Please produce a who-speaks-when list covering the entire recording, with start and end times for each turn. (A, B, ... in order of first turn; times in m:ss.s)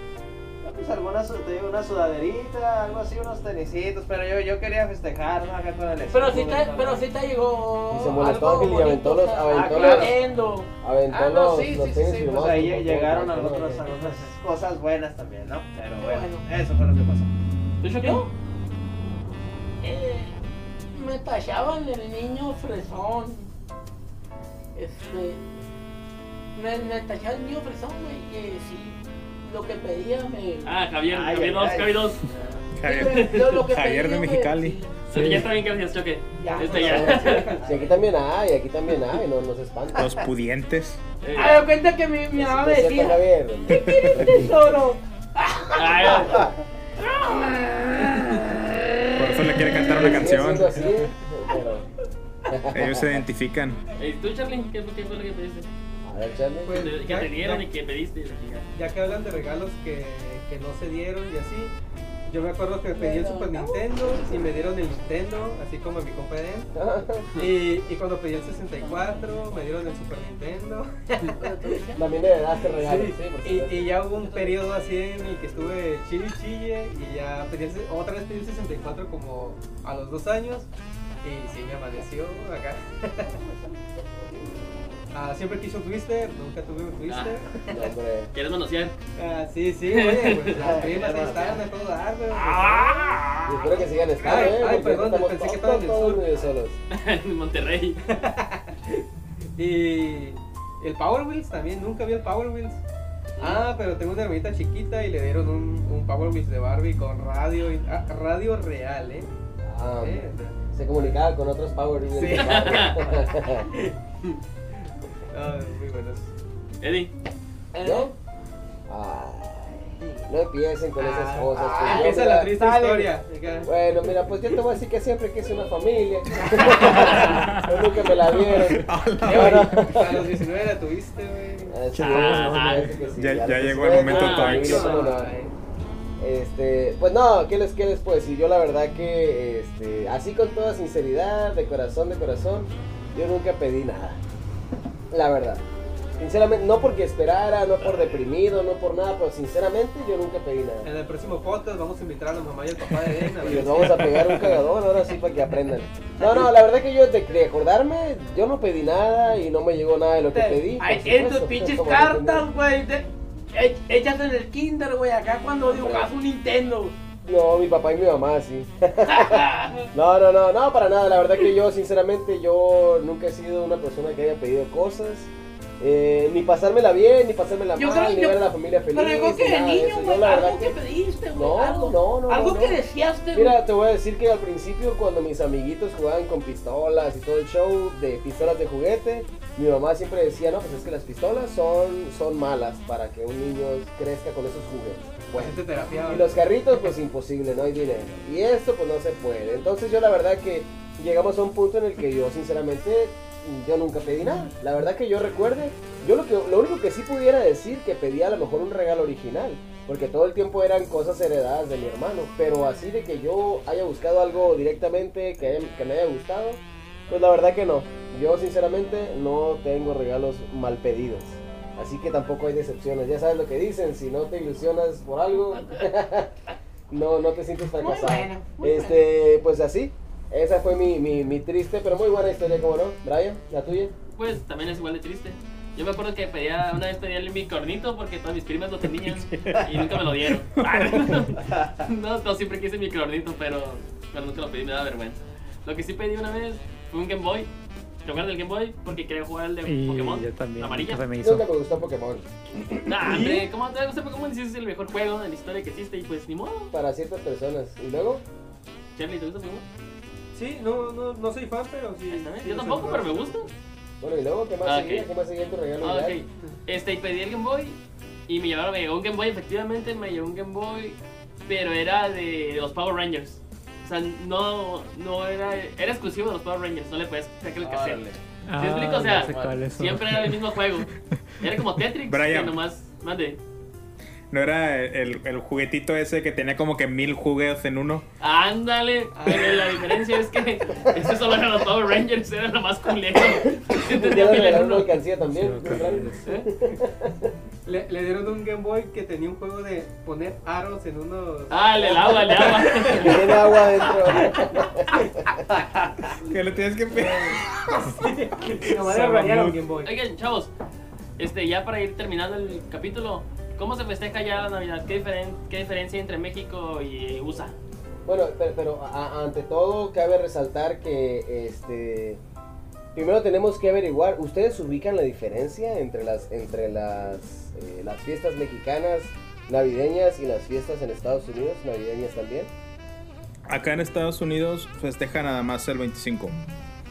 0:00.6-0:07.0 A
0:06.1-0:12.4 B
0:07.9-0:10.2 C
0:09.5-0:10.2 A
0:10.8-0:13.9 C
0:12.3-0:17.3 A
0:16.0-0:16.4 B
0:17.8-0:18.3 D
0:18.0-0:18.3 B
0:19.8-0:20.4 B
0:20.9-0:23.5 B
0:24.8-0:25.4 B
0:26.6-0:30.7 B
0:30.6-0:32.2 D
0:31.1-0:32.6 A
0:32.8-0:34.8 E
0:32.8-0:35.0 B
0:32.9-0:33.6 D
0:35.1-0:35.5 F
0:35.1-0:37.6 D
0:36.4-0:37.9 B
0:36.8-0:40.2 C
0:40.0-0:41.0 E
0:41.2-0:41.7 D
0:41.3-0:46.5 B
0:42.3-0:44.7 C
0:43.7-0:44.1 E
0:45.8-0:46.4 D
0:47.0-0:49.7 B
0:49.2-0:50.8 E
0:49.8-0:51.9 C
0:52.5-0:53.2 C
0:52.7-0:53.8 E
0:54.0-0:55.7 D
0:56.0-0:56.8 C
0:56.6-0:57.6 G
0:56.8-0:58.7 D
0:58.7-1:01.7 G
1:02.3-1:06.7 G
1:02.9-1:04.5 B
1:06.8-1:07.3 C
1:07.4-1:11.6 G
1:08.8-1:09.2 B
1:11.2-1:12.2 B
1:12.0-1:14.0 C
1:12.8-1:20.7 G
1:14.3-1:14.6 B
1:21.2-1:23.4 G
1:25.1-1:27.6 G
1:27.1-1:27.4 D
1:27.7-1:28.3 C
1:28.3-1:29.0 D
1:29.2-1:33.2 G
1:29.9-1:30.8 D
1:30.6-1:31.6 A
1:32.3-1:33.8 D
1:33.5-1:36.8 C
1:34.2-1:36.3 G
1:36.9-1:38.0 D
1:38.1-1:39.0 G
1:39.6-1:42.8 G
1:43.4-1:49.3 G
1:49.6-1:53.7 C
1:50.0-1:50.6 G
1:52.2-1:53.1 G
1:52.2-1:53.0 D
1:55.3-1:56.3 G
1:56.8-1:57.1 D
1:57.7-1:58.1 B
1:57.8-1:58.1 C
1:58.9-2:02.6 C
2:01.0-2:03.7 G
2:01.5-2:03.2 B
2:03.6-2:10.2 C
2:06.8-2:10.3 E
2:09.2-2:11.8 G
2:11.7-2:15.3 C
2:11.9-2:12.9 F
2:12.0-2:12.9 D
2:12.7-2:13.2 G
2:13.2-2:15.0 E
2:14.0-2:15.1 D
2:14.4-2:15.5 G
2:16.2-2:24.2 C
2:25.1-2:25.6 C
2:26.2-2:30.9 C
2:30.8-2:34.4 G
2:33.4-2:42.5 C
2:40.3-2:47.0 B
2:45.7-2:46.1 C
2:47.2-3:00.8 C
2:49.1-2:49.9 B
2:57.8-3:03.6 B
3:01.3-3:02.8 C
3:03.3-3:46.3 C
3:15.3-3:16.4 G
3:46.9-3:53.9 C
3:47.8-3:49.1 B
3:54.2-4:07.5 D
3:58.9-4:01.3 E
4:08.0-4:11.0 D
4:09.6-4:11.5 F
4:11.2-4:12.3 C
4:12.8-4:16.7 D
4:13.1-4:13.4 G
4:16.7-4:18.2 C
4:19.0-4:19.6 D
4:20.3-4:23.5 G
4:22.1-4:23.5 D
4:24.0-4:26.2 C
4:24.6-4:25.1 D
4:25.8-4:38.0 D
4:37.6-4:38.2 A
4:38.5-4:40.4 F
4:38.6-4:43.4 D
4:39.0-4:39.6 A
4:42.1-4:42.6 E
4:44.3-4:48.1 E
4:48.2-4:54.9 D
4:49.1-4:50.0 G
4:53.8-4:57.3 C
4:55.3-4:56.3 F
4:57.7-5:03.2 G
5:01.5-5:03.5 D
5:02.9-5:05.2 C
5:06.2-5:09.6 E
5:07.0-5:09.9 G
5:09.8-5:10.5 D
5:11.2-5:17.5 D
5:18.1-5:22.2 C
5:23.0-5:32.5 C
5:33.5-5:36.4 E